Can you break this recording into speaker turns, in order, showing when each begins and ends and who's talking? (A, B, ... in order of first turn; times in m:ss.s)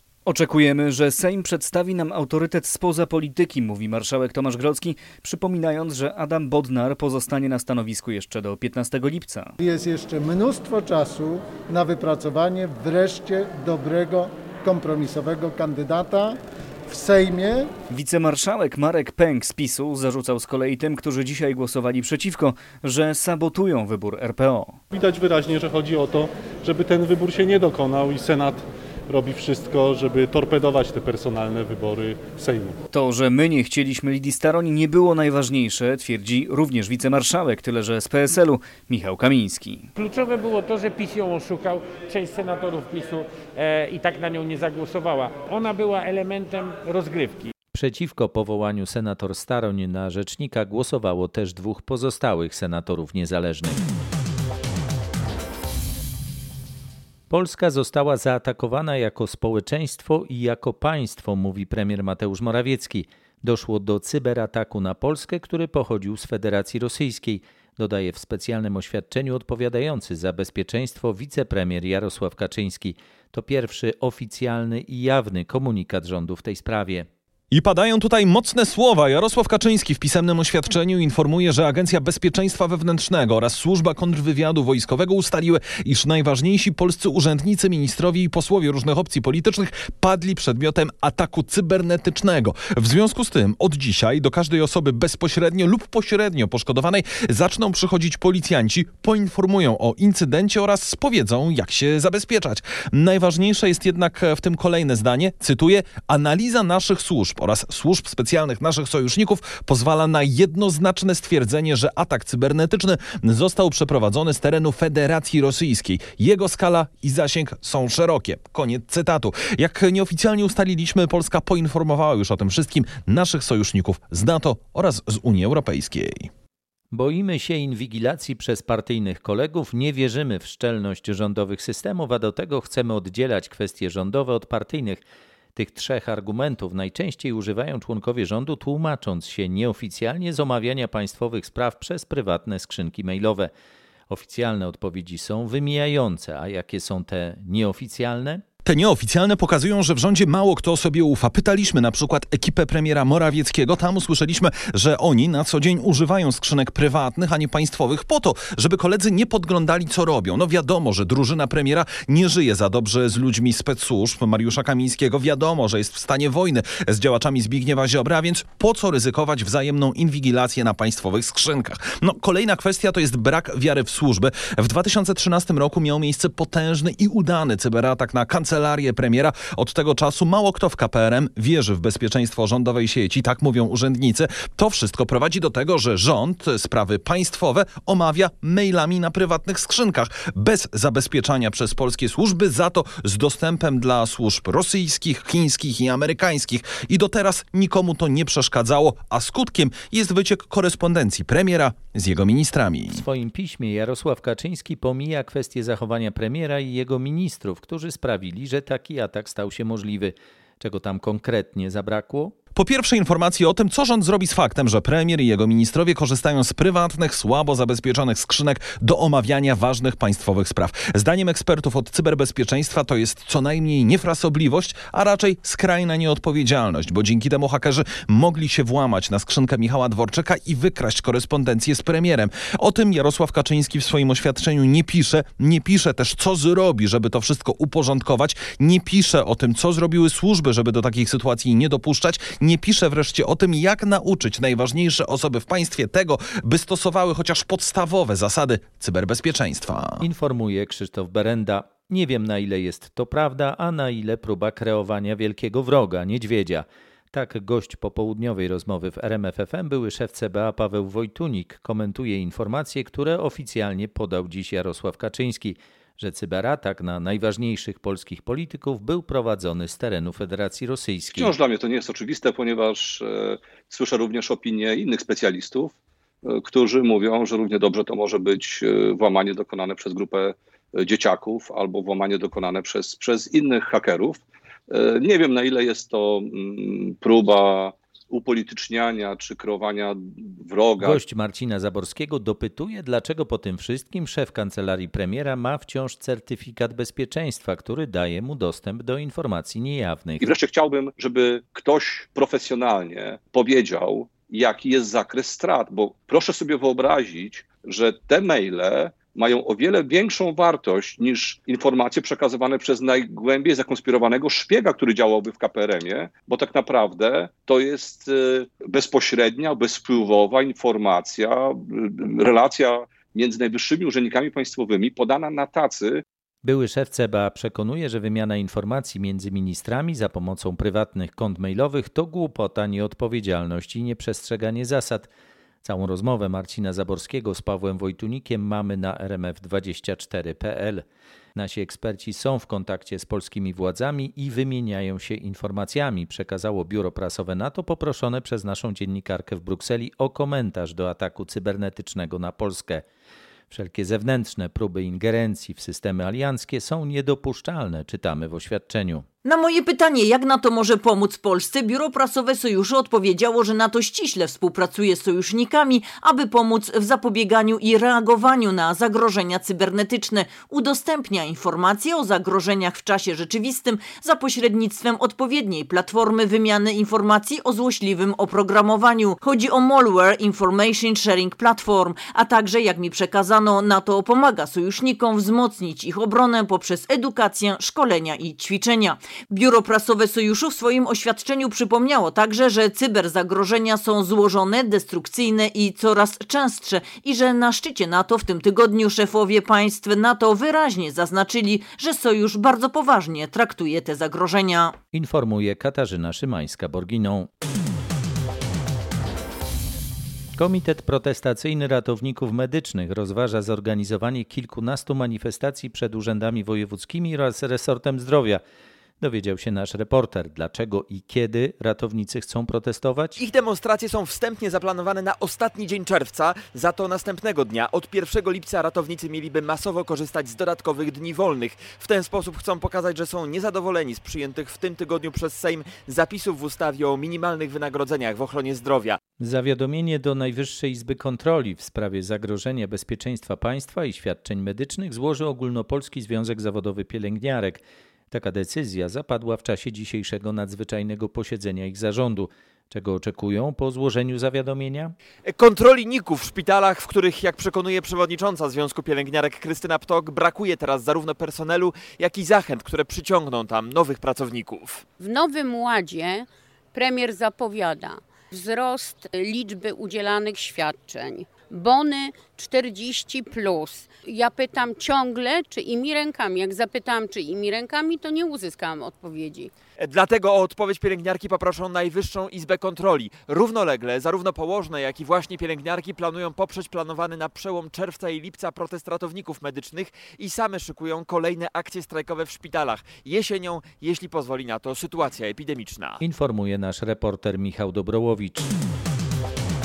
0:00.3-0:09.5 A
0:09.6-0:17.7 B
0:17.9-0:24.8 A
0:24.9-0:32.8 C
0:32.9-0:39.9 A
0:40.0-0:47.5 D
0:47.8-0:53.8 E
0:57.3-1:17.1 E
1:17.5-2:06.3 F
2:06.9-2:15.0 E
2:15.6-2:23.5 E
2:24.1-2:28.4 E
2:28.6-3:23.0 F
3:22.9-3:32.4 E
3:32.6-4:10.0 F
4:10.0-4:31.3 E
4:31.2-4:51.0 G
4:50.8-5:00.3 E
5:00.2-5:26.0 G
5:26.4-5:35.1 E
5:35.6-5:40.8 E
5:41.4-5:52.8 E
5:53.5-5:59.1 E
5:59.2-6:44.8 H
6:44.9-6:47.3 E
6:50.4-6:58.4 E
6:59.0-7:03.2 E
7:03.2-7:19.0 I
7:19.2-7:34.9 E
7:35.3-7:44.6 I
7:45.0-7:59.5 J
7:59.9-8:01.6 I
8:02.6-8:03.4 I
8:04.7-8:05.1 I
8:05.9-8:06.5 I
8:10.4-8:11.7 I
8:16.0-8:18.5 E